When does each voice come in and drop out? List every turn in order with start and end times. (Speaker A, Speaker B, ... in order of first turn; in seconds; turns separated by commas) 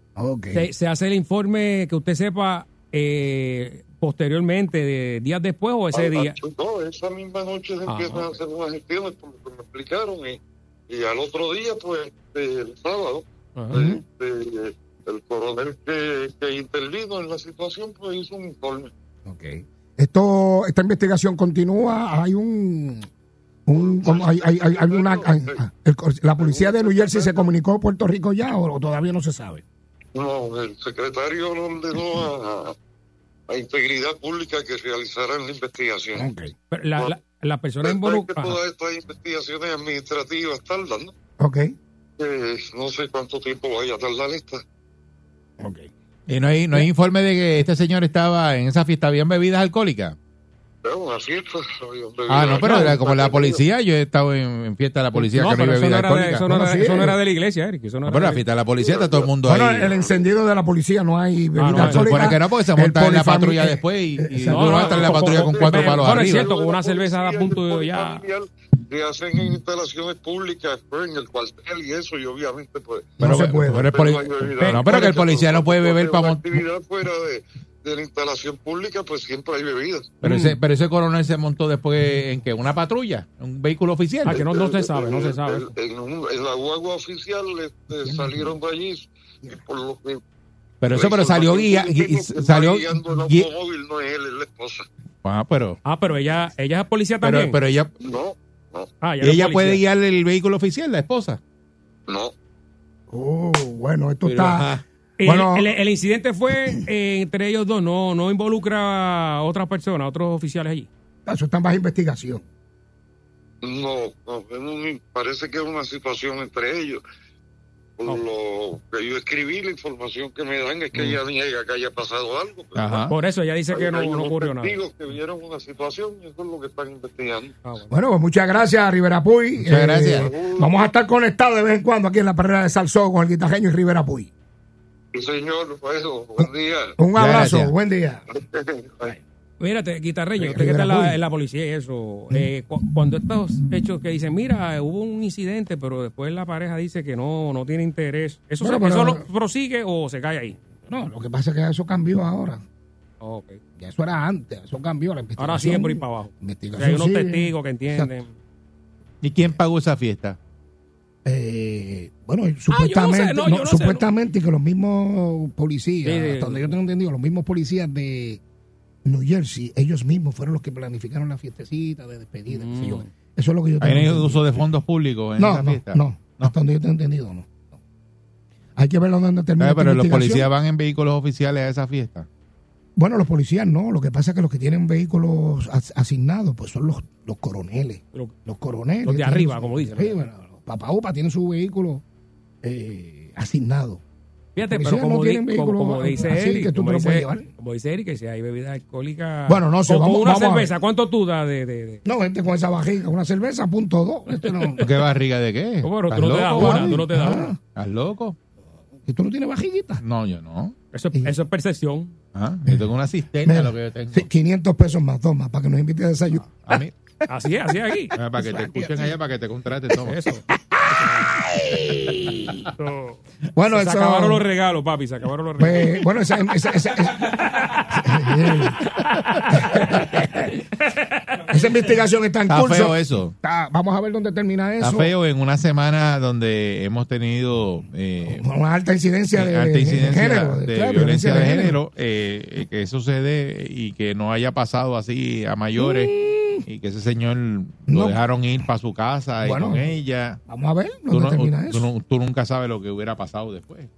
Speaker A: 0.1-0.7, Speaker B: 0.5-6.3, Speaker C: 5.9-18.9, Speaker B: 7.9-8.3, Speaker A: 13.7-14.0, Speaker A: 19.2-23.1, Speaker A: 23.6-29.6, Speaker C: 23.8-25.6, Speaker C: 26.4-27.5, Speaker C: 30.1-32.7, Speaker C: 33.5-36.2, Speaker A: 36.1-36.5, Speaker B: 36.7-38.6, Speaker C: 37.8-41.1, Speaker A: 41.4-41.7, Speaker C: 42.2-44.6, Speaker A: 45.6-45.9, Speaker D: 46.3-50.1, Speaker C: 50.8-53.6, Speaker D: 52.3-56.5, Speaker B: 52.6-52.9, Speaker B: 55.2-58.4, Speaker A: 56.5-57.2, Speaker D: 58.0-59.9, Speaker C: 58.8-59.3, Speaker A: 59.4-64.9, Speaker B: 61.5-62.1, Speaker D: 61.7-66.5, Speaker B: 64.5-68.2, Speaker C: 64.8-80.1, Speaker A: 73.2-73.9, Speaker D: 73.2-76.6, Speaker B: 74.6-75.1, Speaker D: 80.2-84.4, Speaker B: 80.3-80.5, Speaker B: 84.2-85.7, Speaker C: 84.3-90.2, Speaker A: 88.0-88.5, Speaker D: 90.8-93.5, Speaker C: 90.9-94.9, Speaker D: 95.2-95.8, Speaker B: 95.8-97.6, Speaker D: 97.2-97.9, Speaker C: 98.0-98.9, Speaker B: 99.0-99.8, Speaker D: 99.2-101.4, Speaker C: 102.1-102.3, Speaker A: 103.1-105.8, Speaker D: 104.2-104.8, Speaker B: 105.2-110.9, Speaker A: 111.2-112.4, Speaker C: 113.6-117.0, Speaker C: 118.0-123.1, Speaker B: 120.9-121.2, Speaker D: 122.7-123.1, Speaker B: 123.1-124.8, Speaker C: 123.7-127.5, Speaker B: 127.6-128.0, Speaker A: 127.9-134.3, Speaker D: 129.6-130.3, Speaker C: 130.1-130.7, Speaker C: 135.1-137.0, Speaker A: 137.0-138.2, Speaker D: 137.1-137.7, Speaker C: 138.3-139.2, Speaker B: 139.6-150.6, Speaker A: 140.4-141.2, Speaker A: 148.6-149.2, Speaker A: 150.9-152.6, Speaker B: 153.2-153.6, Speaker A: 153.8-158.1, Speaker B: 155.4-158.3, Speaker D: 159.2-160.4, Speaker A: 161.2-168.4, Speaker B: 162.7-164.0, Speaker B: 166.0-166.7, Speaker A: 169.0-174.6, Speaker B: 172.5-173.1, Speaker D: 173.8-176.5, Speaker A: 175.4-177.8, Speaker A: 178.8-180.5, Speaker D: 179.6-182.3, Speaker A: 182.9-192.0, Speaker B: 189.0-190.2, Speaker A: 192.6-194.0, Speaker B: 194.6-202.0, Speaker A: 194.6-197.5, Speaker A: 199.5-200.7, Speaker A: 202.0-204.9, Speaker D: 204.8-207.1, Speaker B: 205.8-207.5, Speaker A: 206.5-207.6, Speaker D: 207.7-208.3, Speaker A: 209.1-210.0, Speaker D: 210.0-210.7, Speaker B: 210.9-212.1, Speaker D: 212.3-214.3, Speaker A: 213.4-216.7, Speaker D: 216.7-216.9, Speaker B: 217.3-218.1, Speaker D: 218.2-220.2, Speaker A: 218.3-219.1, Speaker B: 220.0-221.4, Speaker A: 220.7-222.6, Speaker B: 222.8-226.0, Speaker A: 223.5-224.4, Speaker A: 225.6-230.5, Speaker B: 227.2-227.9, Speaker B: 228.8-230.2, Speaker B: 230.8-231.4, Speaker A: 231.5-235.1, Speaker D: 232.5-233.3, Speaker D: 234.8-238.4, Speaker A: 238.2-241.8, Speaker D: 239.3-250.4, Speaker A: 245.8-246.7, Speaker A: 247.9-248.2, Speaker A: 249.4-249.8, Speaker A: 250.5-251.9, Speaker D: 251.1-253.9